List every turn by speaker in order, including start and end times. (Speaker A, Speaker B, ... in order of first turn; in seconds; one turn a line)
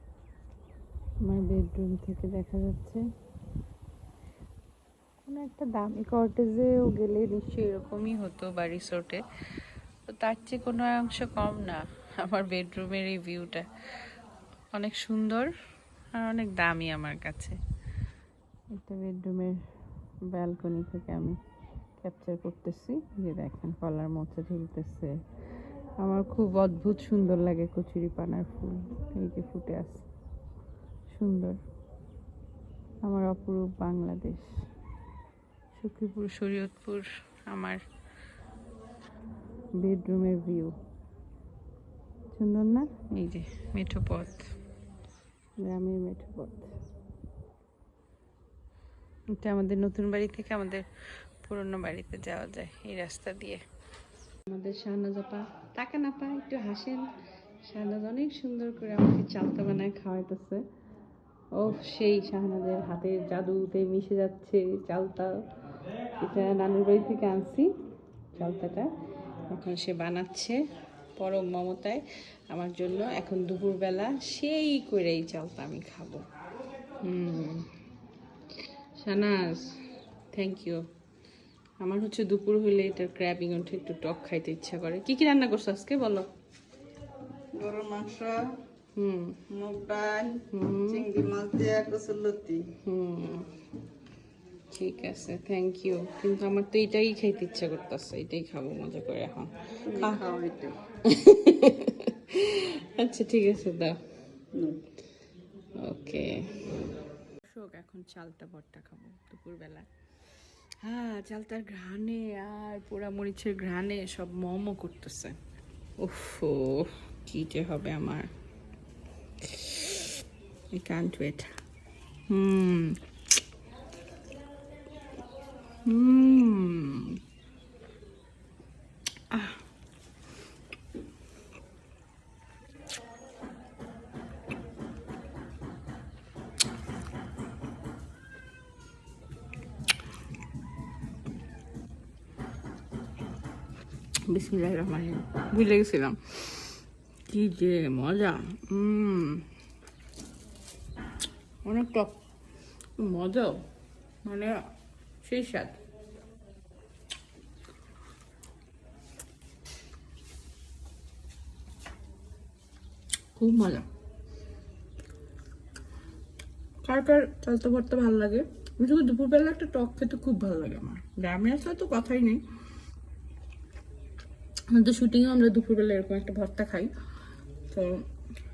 Speaker A: 1.2-3.0
Speaker A: 5.3-9.2
Speaker A: 10.1-13.7
Speaker A: 14.7-15.5
Speaker A: 16.2-17.6
Speaker A: 18.7-19.6
Speaker A: 20.3-21.4
Speaker A: 22.0-25.1
Speaker A: 26.0-30.1
Speaker A: 31.1-31.6
Speaker A: 33.0-34.5
Speaker A: 35.8-37.8
Speaker A: 39.8-40.8
Speaker A: 42.3-44.5
Speaker A: 45.6-46.7
Speaker A: 49.4-50.9
Speaker A: 51.4-53.6
Speaker A: 54.5-57.1
Speaker A: 57.7-60.6
Speaker A: 61.5-65.4
Speaker A: 66.2-67.7
Speaker A: 68.3-68.9
Speaker A: 69.5-70.6
Speaker A: 71.2-76.2
Speaker A: 77.0-77.7
Speaker A: 79.0-79.8
Speaker A: 80.3-80.8
Speaker A: 81.8-86.3
Speaker B: 87.5-88.5
Speaker A: 89.0-89.4
Speaker B: 89.5-90.4
Speaker A: 90.5-91.1
Speaker B: 91.0-92.7
Speaker A: 92.8-93.5
Speaker A: 94.7-100.2
Speaker B: 100.1-100.8
Speaker A: 101.0-104.0
Speaker A: 105.8-106.4
Speaker A: 107.4-109.9
Speaker A: 110.8-115.4
Speaker A: 116.0-118.3
Speaker A: 119.4-120.1
Speaker A: 120.7-121.5
Speaker A: 122.3-123.0
Speaker A: 125.8-127.2
Speaker A: 129.3-129.6
Speaker A: 144.3-149.5
Speaker A: 151.6-152.2
Speaker A: 153.0-153.6
Speaker A: 154.2-154.6
Speaker A: 155.2-155.8
Speaker A: 163.3-163.9
Speaker A: 166.8-172.4
Speaker A: 174.7-176.9
Speaker A: 177.7-178.1